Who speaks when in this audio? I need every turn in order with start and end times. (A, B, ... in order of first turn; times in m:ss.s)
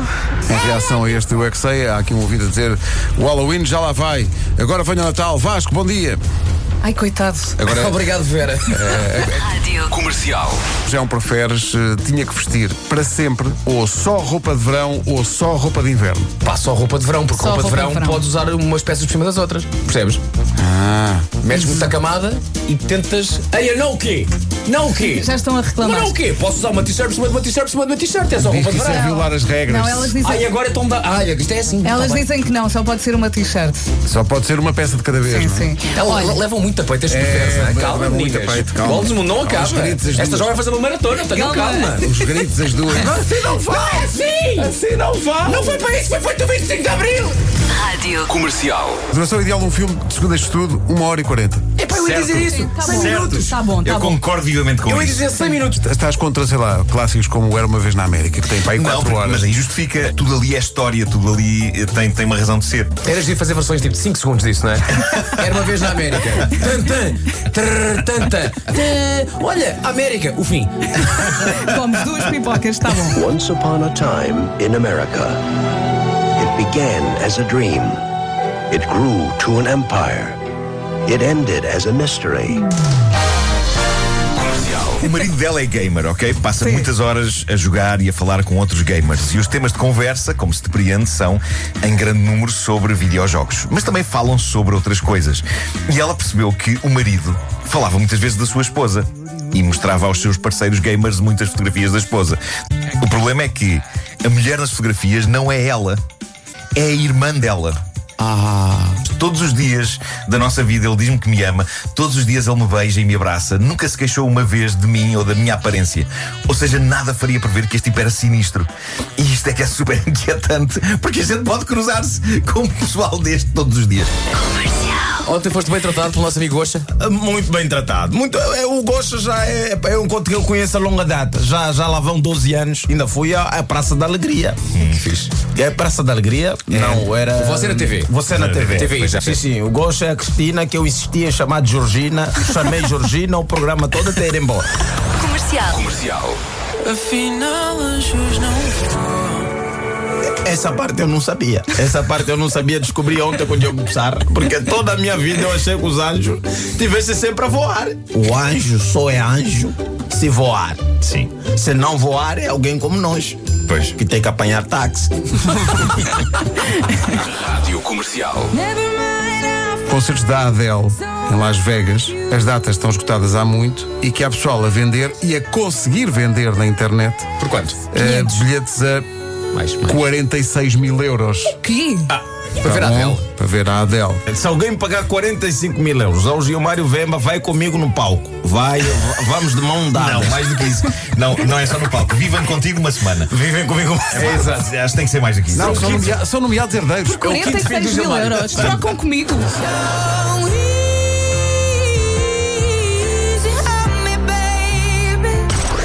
0:00.5-0:06.2 A
0:06.8-0:07.6 B
0:07.6-0:08.1 A
0:07.6-0:09.3 C
0:08.7-0:09.6 A
0:09.5-0:10.0 D
0:10.0-0:10.6 E
0:10.0-0:10.5 C
0:10.7-0:16.3 A
0:16.4-0:20.2 C
0:17.3-0:18.2 B
0:20.6-0:21.6 A
0:21.4-0:29.3 C
0:25.1-0:26.2 B
0:28.4-0:30.2 A
0:28.8-0:30.5 B
0:30.2-0:32.3 C
0:31.8-0:33.9 B
0:34.1-0:35.8 A
0:35.3-0:36.4 B
0:35.9-0:42.2 C
0:37.1-0:40.6 A
0:41.3-0:42.1 B
0:42.0-0:43.2 A
0:43.0-0:44.8 C
0:43.6-0:44.0 F
0:44.6-0:45.4 F
0:45.4-0:47.4 C
0:47.7-0:48.4 D
0:48.3-0:48.9 C
0:48.4-0:49.0 E
0:49.1-0:51.6 A
0:51.8-0:53.4 C
0:51.9-0:54.2 B
0:52.8-0:55.2 G
0:54.8-0:55.8 C
0:55.8-0:59.5 A
0:58.7-1:03.0 G
1:03.0-1:11.3 C
1:11.3-1:13.2 B
1:13.1-1:15.4 H
1:16.4-1:18.0 H
1:18.7-1:20.4 H
1:21.1-1:22.6 H
1:25.0-1:42.4 G
1:26.6-1:26.9 B
1:43.0-1:46.0 G
1:46.8-1:47.8 G
1:48.2-1:49.0 A
1:49.0-2:04.1 G
2:04.5-2:05.0 D
2:05.2-2:06.9 C
2:07.0-2:14.7 F
2:14.7-2:15.0 G
2:14.9-2:15.4 C
2:15.4-2:24.7 F
2:16.7-2:18.1 C
2:18.3-2:18.9 G
2:18.7-2:19.4 C
2:25.2-2:25.9 D
2:25.8-2:29.1 E
2:30.4-2:43.4 F
2:41.0-2:41.3 G
2:43.7-2:44.0 G
2:44.0-2:45.5 F
2:47.4-2:48.5 E
2:47.6-2:48.4 C
2:48.7-2:49.1 B
2:49.9-2:57.3 A
2:57.4-2:57.8 C
2:57.9-2:59.0 A
2:58.0-2:58.4 B
2:59.5-3:00.1 C
2:59.8-3:01.6 A
3:01.6-3:02.1 B
3:02.1-3:03.2 C
3:02.6-3:04.2 A
3:04.3-3:10.4 F
3:09.9-3:13.3 G
3:13.3-3:14.6 F
3:14.1-3:16.1 G
3:15.5-3:17.3 A
3:15.7-3:16.2 C
3:17.0-3:19.7 B
3:17.2-3:18.8 C
3:23.1-3:25.4 B